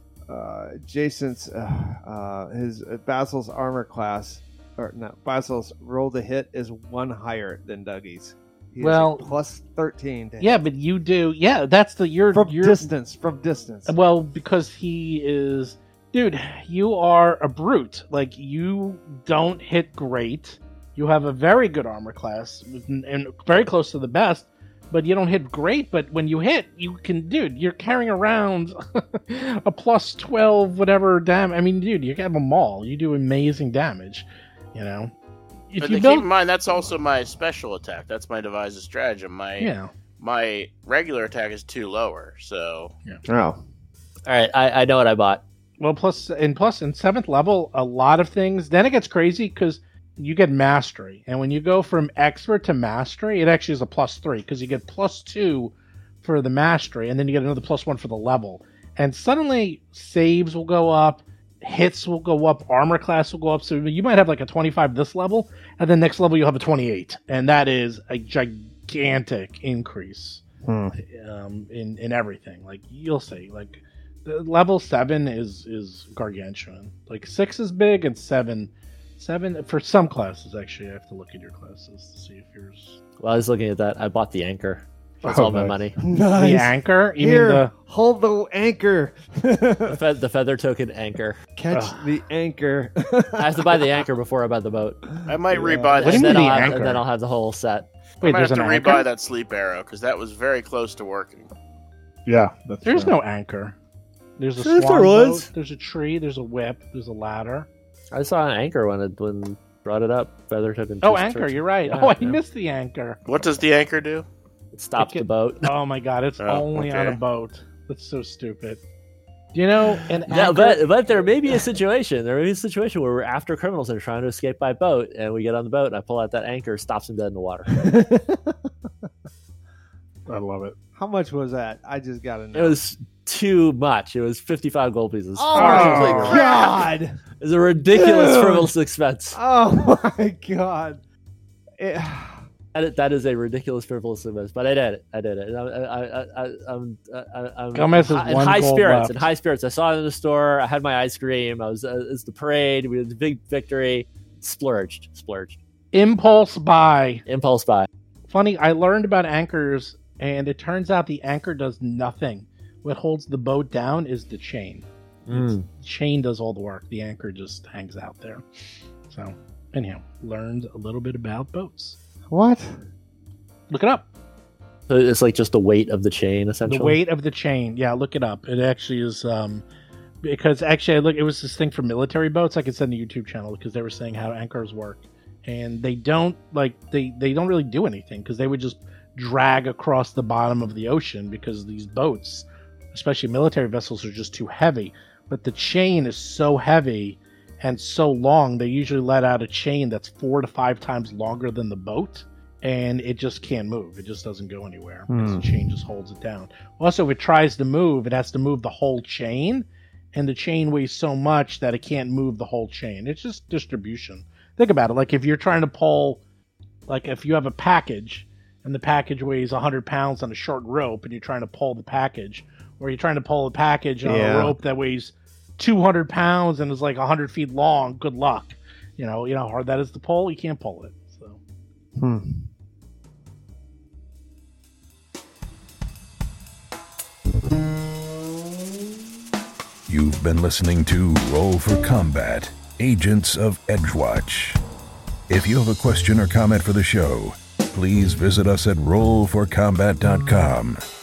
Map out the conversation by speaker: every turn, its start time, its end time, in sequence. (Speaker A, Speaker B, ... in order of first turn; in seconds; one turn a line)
Speaker A: 0.3-10.6
Speaker B: 8.8-9.3
Speaker B: 10.4-12.9
Speaker A: 12.3-13.9
Speaker B: 13.8-35.1
Speaker B: 35.7-36.3
Speaker C: 35.8-42.9
Speaker B: 39.6-39.9
Speaker A: 43.2-43.6
Speaker D: 44.2-45.4
Speaker B: 45.8-70.4
Speaker A: 70.6-71.0
Speaker B: 70.9-83.0
Speaker D: 83.2-85.9
Speaker E: 85.2-85.8
Speaker A: 86.0-90.0
Speaker B: 86.3-87.7
Speaker D: 89.9-91.4
Speaker A: 91.5-94.0
Speaker D: 93.4-95.1
Speaker A: 95.2-96.0
Speaker C: 95.2-96.8
Speaker D: 96.0-97.9
Speaker B: 96.0-97.0
Speaker C: 98.2-101.5
Speaker B: 98.2-99.1
Speaker E: 102.2-103.1
Speaker B: 102.8-103.8
Speaker B: 104.4-107.7
Speaker D: 104.6-105.2
Speaker A: 105.0-105.4
Speaker D: 108.1-112.4
Speaker B: 111.0-113.6
Speaker C: 113.2-114.2
Speaker D: 114.7-115.7
Speaker B: 115.0-118.8
Speaker C: 116.4-117.2
Speaker B: 119.5-120.9
Speaker D: 120.3-127.8
Speaker A: 127.8-128.6
Speaker E: 130.3-130.7
Speaker A: 130.9-132.8
Speaker D: 132.5-136.7
Speaker A: 135.3-137.2
Speaker E: 135.5-136.4
Speaker B: 135.8-136.2
Speaker D: 137.4-139.4
Speaker A: 137.9-138.7
Speaker A: 139.3-141.0
Speaker A: 141.8-142.4
Speaker D: 142.7-155.6
Speaker B: 147.7-149.3
Speaker B: 155.9-157.2
Speaker D: 157.3-157.9
Speaker B: 158.3-168.4
Speaker D: 165.3-165.7
Speaker B: 169.1-171.9
Speaker A: 172.3-172.8
Speaker B: 173.7-174.1
Speaker D: 174.9-177.0
Speaker B: 176.6-179.6
Speaker B: 180.2-216.2
Speaker A: 205.1-205.8
Speaker B: 216.9-231.4
Speaker A: 224.0-224.6
Speaker A: 231.9-232.5
Speaker F: 239.9-244.6
Speaker F: 245.3-250.8